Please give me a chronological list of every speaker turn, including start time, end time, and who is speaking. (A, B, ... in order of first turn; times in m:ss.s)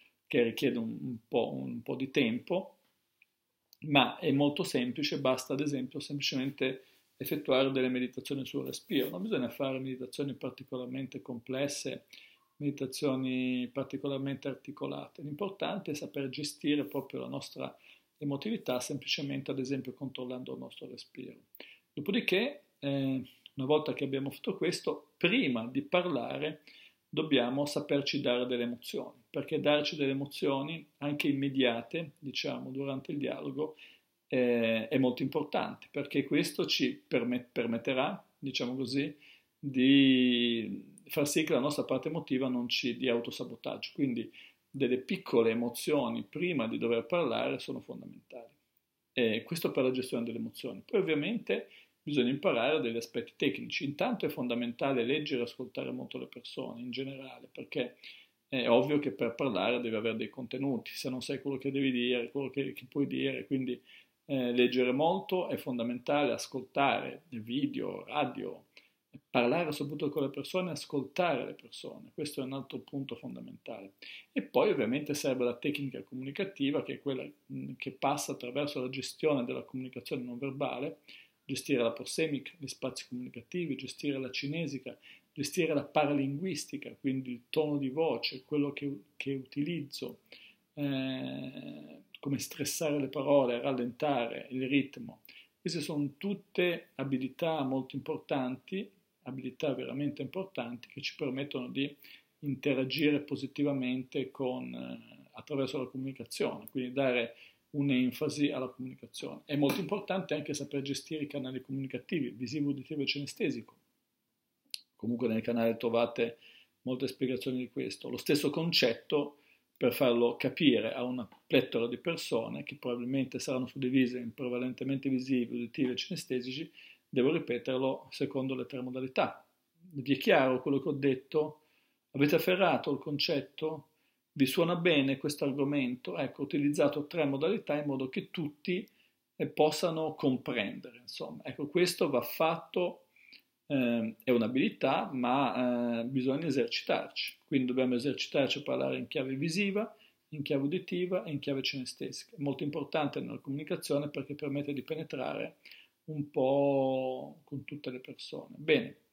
0:00.3-0:02.8 A
0:03.8-0:12.1 A
0:12.6-0:21.4 A
0:21.9-0:26.6 A
0:27.1-0:33.8 A
0:34.3-0:48.6 A
0:49.2-0:58.0 A
0:58.5-1:30.2 A
1:30.8-1:53.8 A
1:55.0-2:11.6 A
2:12.1-2:23.1 A
2:23.7-2:39.0 A